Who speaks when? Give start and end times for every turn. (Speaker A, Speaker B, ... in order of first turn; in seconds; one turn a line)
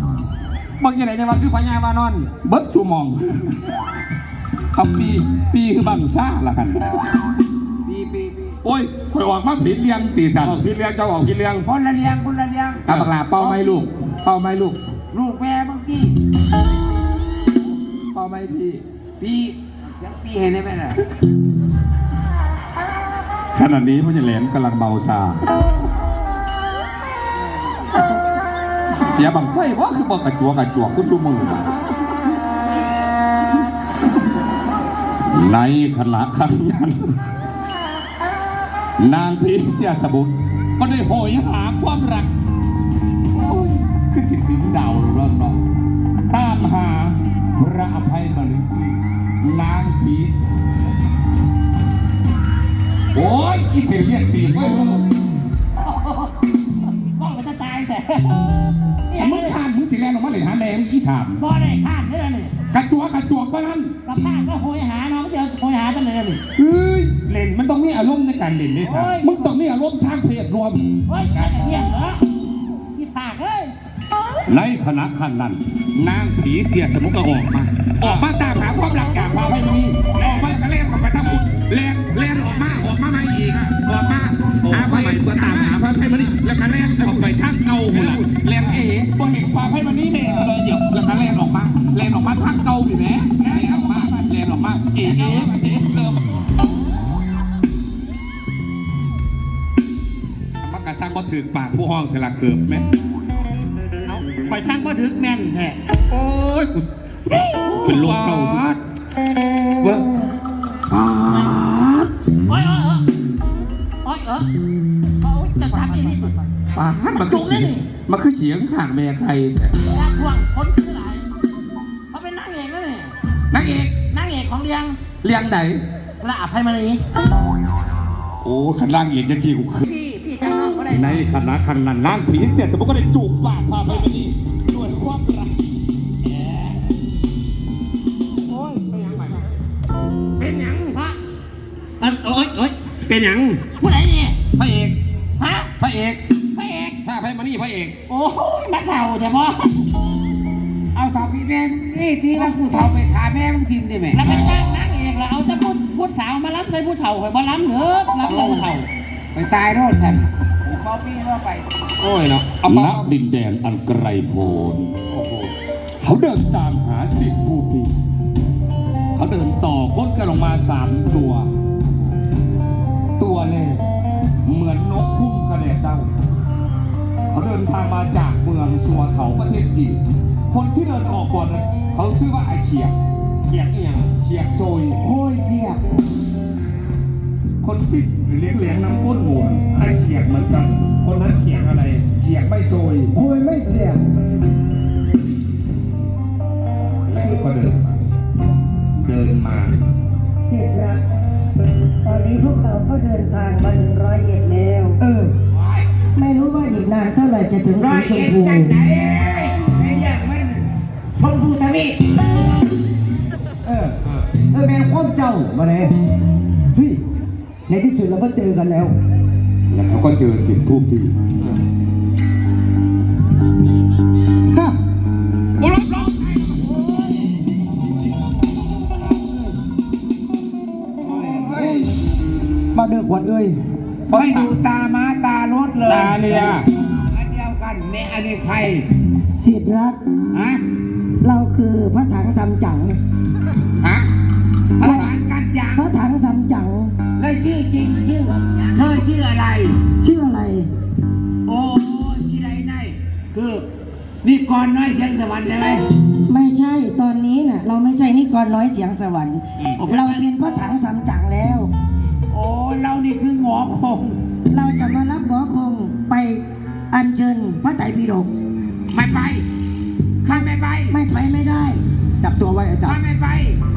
Speaker A: 0.8-2.3
Speaker B: 2.4-3.8
Speaker B: 4.7-7.0
Speaker C: 7.8-8.6
Speaker B: 8.6-10.6
Speaker A: 10.4-11.7
Speaker C: 11.6-12.8
Speaker B: 12.8-14.8
Speaker C: 15.1-16.2
Speaker B: 18.1-18.8
Speaker C: 19.2-21.0
Speaker B: 23.5-25.4
Speaker C: 27.3-27.9
Speaker B: 29.0-31.7
Speaker B: 35.2-37.2
Speaker B: 39.0-42.3
Speaker B: 43.3-45.6
Speaker B: 46.3-48.6
Speaker B: 49.4-50.3
Speaker B: 53.1-55.0
Speaker D: 55.8-56.3
Speaker D: 56.9-58.4
Speaker D: 59.1-59.6
Speaker B: 59.2-61.4
Speaker D: 61.4-62.5
Speaker B: 62.7-63.9
Speaker D: 64.0-66.4
Speaker B: 66.6-67.2
Speaker A: 67.3-69.2
Speaker D: 68.8-69.4
Speaker B: 69.2-71.6
Speaker D: 71.1-72.2
Speaker D: 72.9-73.7
Speaker B: 74.5-96.4
Speaker A: 78.0-78.3
Speaker A: 80.2-80.5
Speaker A: 84.7-88.8
Speaker A: 93.5-94.0
Speaker A: 95.0-95.5
Speaker B: 100.6-102.8
Speaker D: 104.0-105.8
Speaker B: 106.1-108.7
Speaker A: 107.8-108.8
Speaker B: 110.9-112.1
Speaker D: 111.2-111.6
Speaker D: 112.5-113.0
Speaker D: 114.0-114.5
Speaker D: 115.2-116.3
Speaker B: 116.7-119.8
Speaker D: 117.2-117.9
Speaker D: 119.9-121.3
Speaker D: 122.1-123.2
Speaker B: 123.5-123.9
Speaker D: 124.0-125.0
Speaker B: 125.2-125.8
Speaker D: 126.2-127.0
Speaker B: 128.4-129.9
Speaker D: 129.8-131.2
Speaker B: 130.9-135.5
Speaker A: 138.7-139.4
Speaker A: 140.4-141.0
Speaker D: 140.7-141.2
Speaker D: 142.0-142.8
Speaker A: 143.1-143.7
Speaker D: 143.8-144.4
Speaker A: 144.5-145.0
Speaker D: 145.4-145.7
Speaker A: 145.8-146.2
Speaker D: 146.5-147.0
Speaker A: 147.0-148.0
Speaker D: 148.1-149.7
Speaker C: 150.9-154.3
Speaker D: 152.3-152.8
Speaker D: 154.1-158.7
Speaker A: 158.2-158.8
Speaker C: 159.3-161.7
Speaker A: 162.0-163.1
Speaker B: 162.6-165.0
Speaker A: 165.1-165.5
Speaker B: 166.0-167.9
Speaker B: 169.2-171.5
Speaker B: 173.2-173.8
Speaker B: 174.4-176.1
Speaker B: 177.3-180.0
Speaker B: 180.5-182.9
Speaker A: 183.5-184.1
Speaker B: 184.2-185.0
Speaker C: 185.0-185.8
Speaker B: 187.6-190.9
Speaker A: 191.0-192.0
Speaker B: 192.0-193.1
Speaker C: 193.2-194.0
Speaker B: 197.1-198.0
Speaker B: 199.0-199.8
Speaker E: 200.4-201.0
Speaker E: 202.0-205.0
Speaker C: 205.0-205.8
Speaker E: 206.1-208.8
Speaker C: 207.8-212.0
Speaker C: 214.5-215.4
Speaker B: 219.7-221.1
Speaker B: 225.6-226.2
Speaker C: 231.0-231.7
Speaker B: 231.5-231.8
Speaker E: 232.8-233.5
Speaker C: 234.1-238.9
Speaker B: 234.1-234.5
Speaker A: 235.8-236.7
Speaker E: 239.4-240.0
Speaker C: 240.3-240.6
Speaker E: 241.2-243.0
Speaker E: 244.8-245.1
Speaker C: 244.8-245.8
Speaker E: 245.7-247.0
Speaker C: 247.2-249.8
Speaker E: 249.9-250.7
Speaker C: 251.5-253.7
Speaker C: 254.2-255.8
Speaker E: 256.2-261.7
Speaker C: 259.9-260.3
Speaker C: 262.3-264.2
Speaker E: 264.5-268.3
Speaker C: 268.9-269.4
Speaker C: 270.2-271.0
Speaker E: 270.2-273.0
Speaker C: 272.8-273.6